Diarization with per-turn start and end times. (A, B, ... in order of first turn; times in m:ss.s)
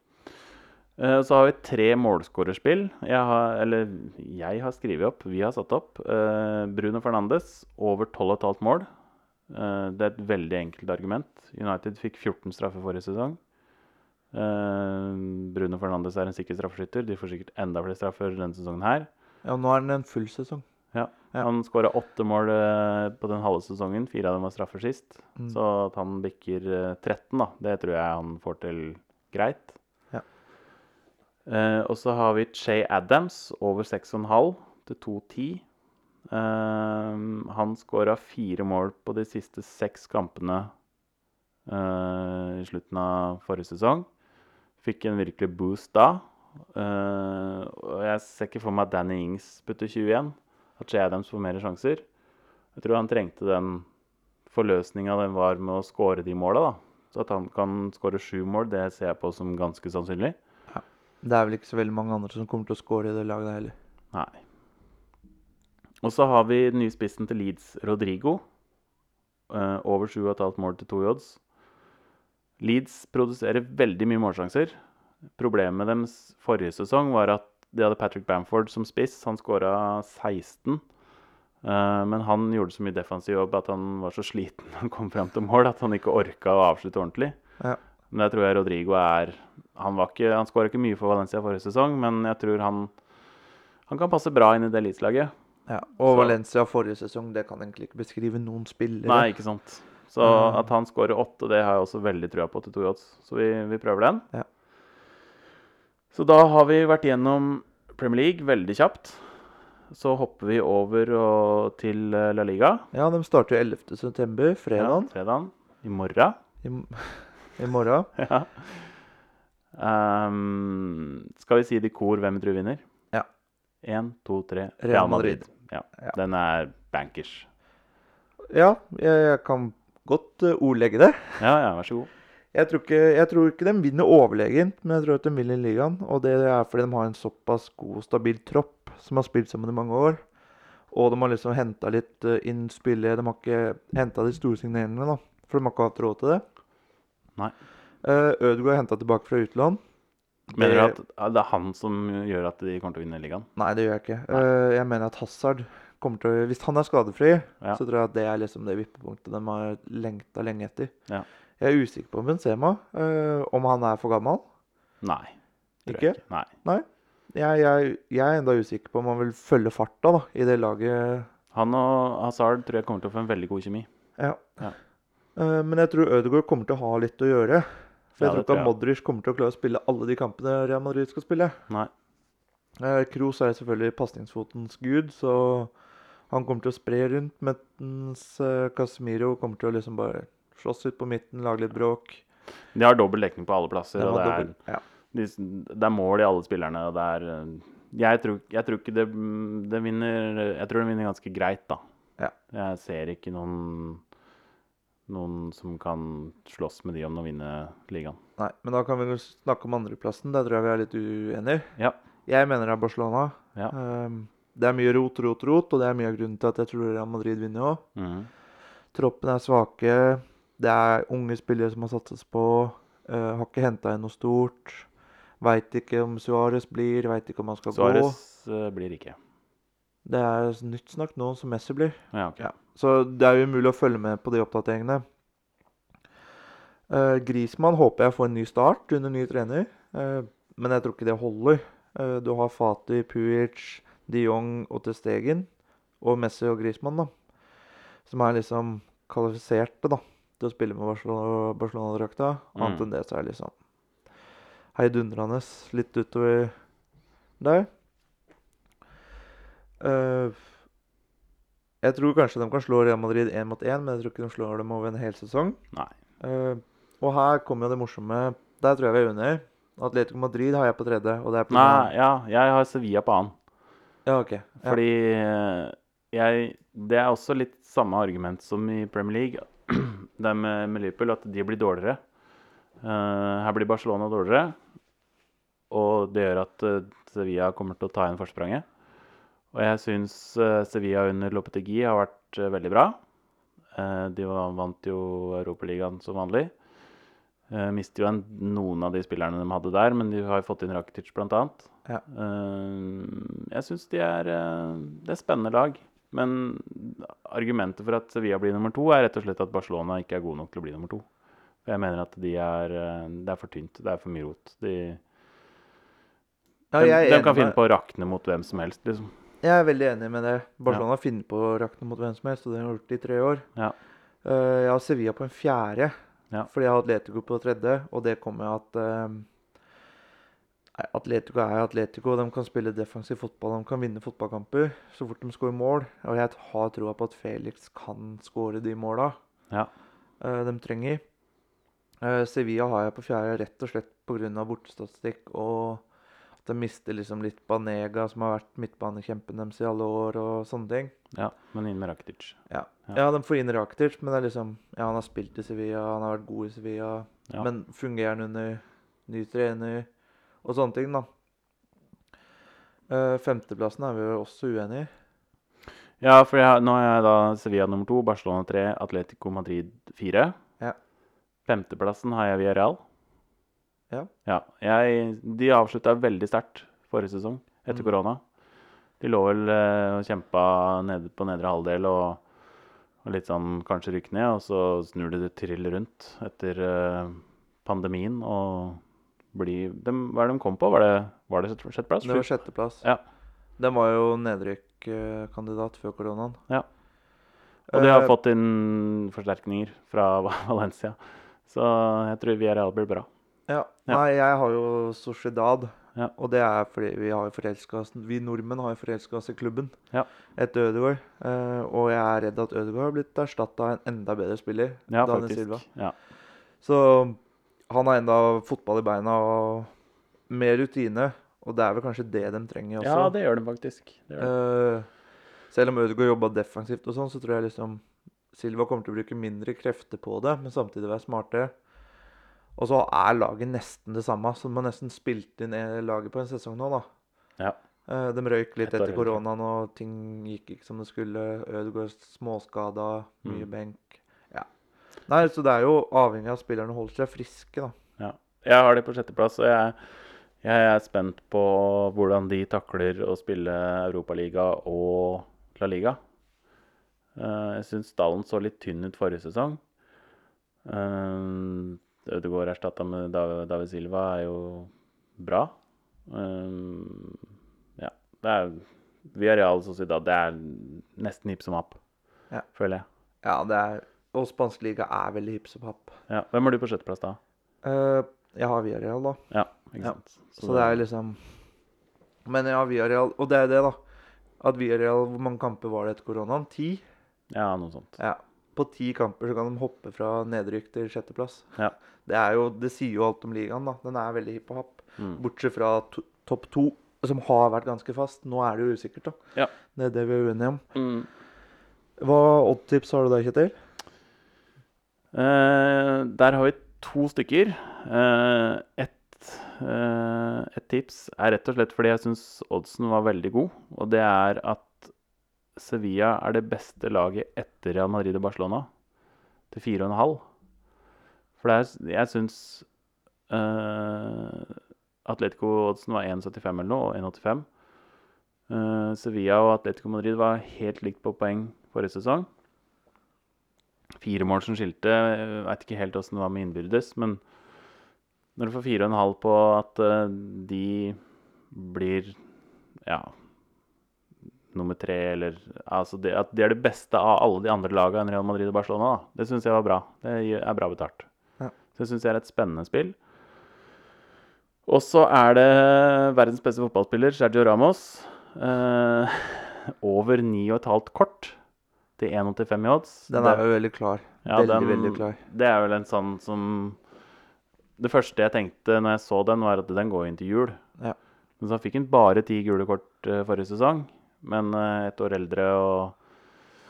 0:01.0-0:08.9 A
0:09.5-0:13.4 A
0:14.3-0:19.1 A
0:19.4-0:20.6 B
0:20.9-0:29.8 A
0:31.4-0:35.6 A
0:36.3-0:40.7 A
0:41.7-0:44.1 A
0:44.8-0:52.1 A
0:52.7-0:53.9 A
0:54.5-1:00.4 A
1:00.7-1:03.7 B
1:04.1-1:04.4 A
1:06.0-1:08.4 A
1:09.5-1:11.4 A
1:12.6-1:14.8 A
1:15.4-1:20.8 A
1:21.6-1:27.4 A
1:28.1-1:32.9 A
1:33.9-1:35.3 A
1:35.7-1:39.3 B
1:36.1-1:36.4 A
1:39.0-1:44.2 A
1:40.2-1:40.6 B
1:46.1-1:49.2 A
1:49.9-1:52.9 A
1:52.9-1:55.1 B
1:54.8-1:56.4 A
1:56.6-1:58.1 B
1:58.2-1:59.0 A
1:59.7-2:02.8 A
2:03.8-2:07.5 A
2:04.8-2:05.4 B
2:08.5-2:11.4 B
2:11.4-2:12.1 A
2:12.5-2:20.2 B
2:20.9-2:26.4 B
2:28.0-2:29.8 B
2:30.5-2:31.0 B
2:30.5-2:33.5 A
2:33.6-2:40.9 B
2:41.6-2:44.4 B
2:45.0-2:46.5 A
2:45.9-2:51.3 B
2:51.5-2:53.9 A
2:54.2-2:54.7 B
2:55.4-3:01.6 B
2:58.2-2:58.7 A
3:02.8-3:05.7 B
3:06.3-3:12.2 B
3:12.7-3:14.5 A
3:14.0-3:14.8 B
3:15.1-3:21.8 A
3:22.5-3:24.0 A
3:25.1-3:28.2 A
3:28.4-3:31.7 B
3:32.3-3:37.8 B
3:38.0-3:38.3 A
3:38.9-3:44.9 B
3:45.4-3:48.2 B
3:47.7-3:49.2 A
3:50.0-3:55.0 B
3:52.1-3:52.5 A
3:56.9-4:05.5 B
4:06.0-4:07.1 B
4:08.1-4:13.5 B
4:12.6-4:12.9 A
4:14.7-4:16.5 B
4:17.4-4:17.7 B
4:19.8-4:20.4 B
4:21.8-4:25.6 B
4:26.2-4:31.9 B
4:31.5-4:33.4 A
4:34.1-4:34.8 B
4:34.6-4:42.0 A
4:42.8-4:44.6 A
4:45.7-4:48.6 A
4:49.5-4:53.0 A
4:53.7-4:56.5 A
4:57.5-5:11.1 A
5:11.6-5:15.0 A
5:16.7-5:17.6 B
5:16.8-5:19.1 A
5:19.4-5:23.4 B
5:24.2-5:25.9 B
5:26.5-5:29.3 B
5:30.8-5:39.2 B
5:40.2-5:41.0 B
5:42.0-5:45.8 B
5:46.4-5:50.9 B
5:51.1-5:53.0 A
5:52.5-5:59.9 B
6:00.4-6:01.1 B
6:02.9-6:04.9 B
6:06.0-6:10.4 A
6:11.4-6:12.8 A
6:14.2-6:18.2 A
6:19.0-6:22.2 A
6:23.0-6:28.8 A
6:29.3-6:32.3 A
6:32.0-6:32.8 B
6:33.6-6:36.4 B
6:37.7-6:38.1 B
6:37.7-6:43.1 A
6:43.5-6:49.7 B
6:50.4-6:55.6 B
6:54.9-6:55.9 A
6:56.6-6:59.7 B
7:00.3-7:03.1 B
7:02.8-7:04.3 A
7:04.2-7:04.9 B
7:05.5-7:11.5 B
7:12.6-7:16.9 B
7:17.9-7:24.5 B
7:18.6-7:19.2 A
7:25.1-7:27.7 B
7:28.0-7:36.0 A
7:37.2-7:39.6 A
7:40.6-7:45.5 A
7:46.1-7:51.8 A
7:52.5-7:52.9 A
7:53.2-7:55.9 B
7:56.1-7:57.2 A
7:57.6-7:59.2 B
7:59.3-8:00.8 A
7:59.8-8:01.2 B
8:02.2-8:03.8 B
8:04.4-8:06.8 B
8:07.3-8:08.0 A
8:08.0-8:19.2 B
8:19.7-8:20.6 B
8:20.7-8:21.1 A
8:22.0-8:23.5 B
8:25.1-8:34.9 A
8:35.6-8:38.7 A
8:39.5-8:40.2 A
8:41.4-8:42.7 A
8:43.3-8:47.5 A
8:48.5-8:52.3 A
8:54.0-8:57.2 A
8:58.4-9:01.0 A
9:01.5-9:02.2 A
9:02.8-9:03.1 A
9:04.5-9:11.1 A
9:11.7-9:13.0 A
9:14.6-9:21.4 A
9:22.0-9:23.4 A
9:23.1-9:25.2 B
9:24.2-9:26.8 A
9:27.8-9:30.6 A
9:31.4-9:35.9 A